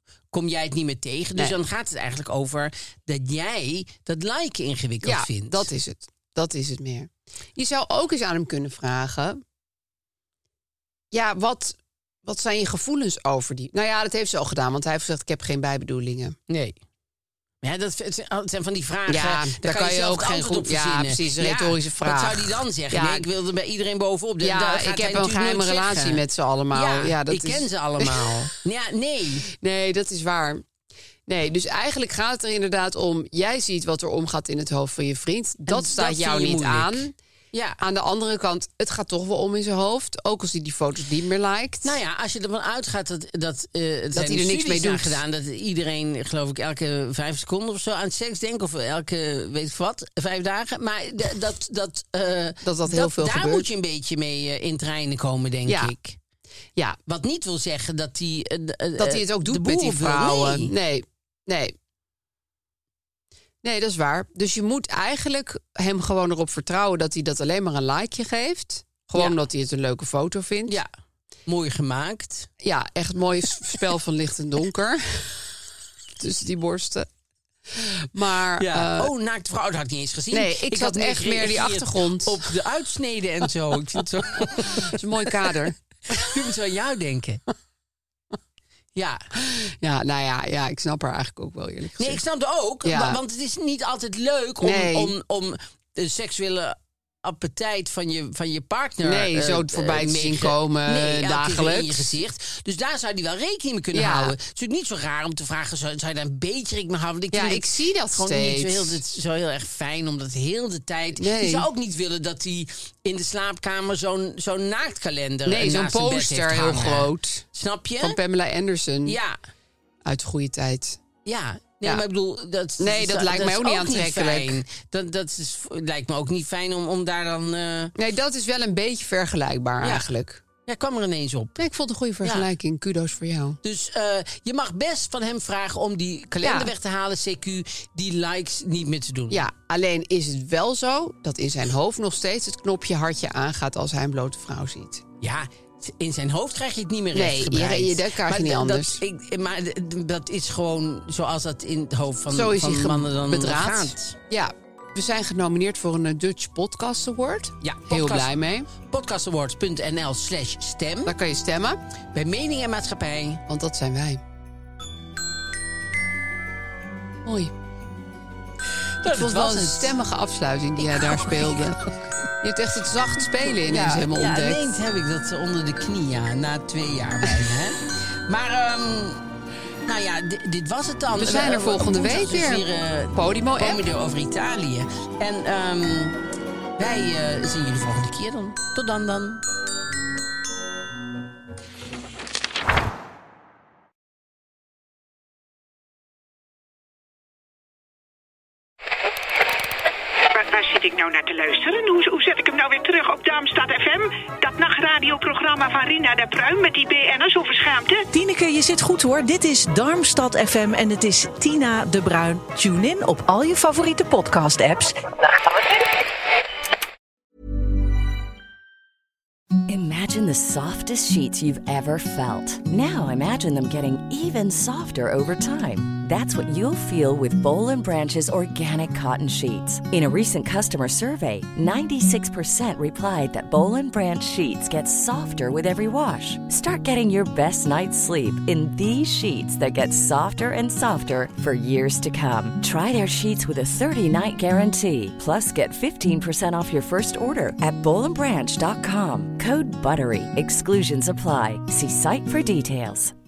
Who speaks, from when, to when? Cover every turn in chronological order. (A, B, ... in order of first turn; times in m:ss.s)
0:00.3-0:05.7 A
0:05.0-0:09.4 B
0:11.1-0:16.4 B
0:16.5-0:16.8 A
0:17.6-0:29.5 A
0:19.1-0:23.3 B
0:24.4-0:28.5 B
0:29.5-0:30.6 B
0:31.3-0:37.1 B
0:35.7-0:37.8 A
0:37.8-0:41.9 B
0:41.8-0:56.2 A
0:44.1-0:45.2 B
0:52.6-0:53.7 B
0:55.7-0:55.9 B
0:57.1-1:00.7 A
0:59.0-1:01.7 B
1:03.6-1:10.8 B
1:11.5-1:12.5 A
1:12.6-1:15.5 B
1:16.2-1:17.1 B
1:17.7-1:19.1 B
1:18.6-1:25.3 A
1:20.3-1:22.5 B
1:24.4-1:26.2 B
1:26.1-1:27.4 A
1:29.0-1:29.2 A
1:29.4-1:32.2 B
1:32.0-1:58.2 A
1:32.8-1:33.2 B
1:34.6-1:35.1 B
1:39.0-1:42.2 B
1:43.9-1:44.4 B
1:47.3-1:49.0 B
1:51.2-1:51.7 B
1:55.5-1:57.5 B
1:58.0-1:59.2 B
1:59.1-1:59.4 A
2:00.1-2:01.0 B
2:01.3-2:07.9 A
2:02.8-2:04.6 B
2:08.0-2:10.4 B
2:10.7-2:11.6 A
2:11.6-2:13.6 B
2:13.6-2:19.4 A
2:16.4-2:16.7 B
2:19.3-2:25.0 B
2:25.2-2:34.2 A
2:27.1-2:29.0 B
2:32.3-2:38.7 B
2:37.6-2:41.1 A
2:41.1-2:41.8 B
2:42.1-2:43.4 A
2:43.5-2:44.2 B
2:47.2-2:47.5 B
2:49.0-2:50.0 A
2:49.0-2:51.8 B
2:50.8-2:52.0 A
2:52.4-2:54.7 B
2:53.3-2:59.2 A
2:59.9-3:06.2 A
3:01.2-3:03.8 B
3:06.8-3:09.4 A
3:20.3-3:28.1 C
3:28.1-3:35.0 D
3:39.7-4:13.1 E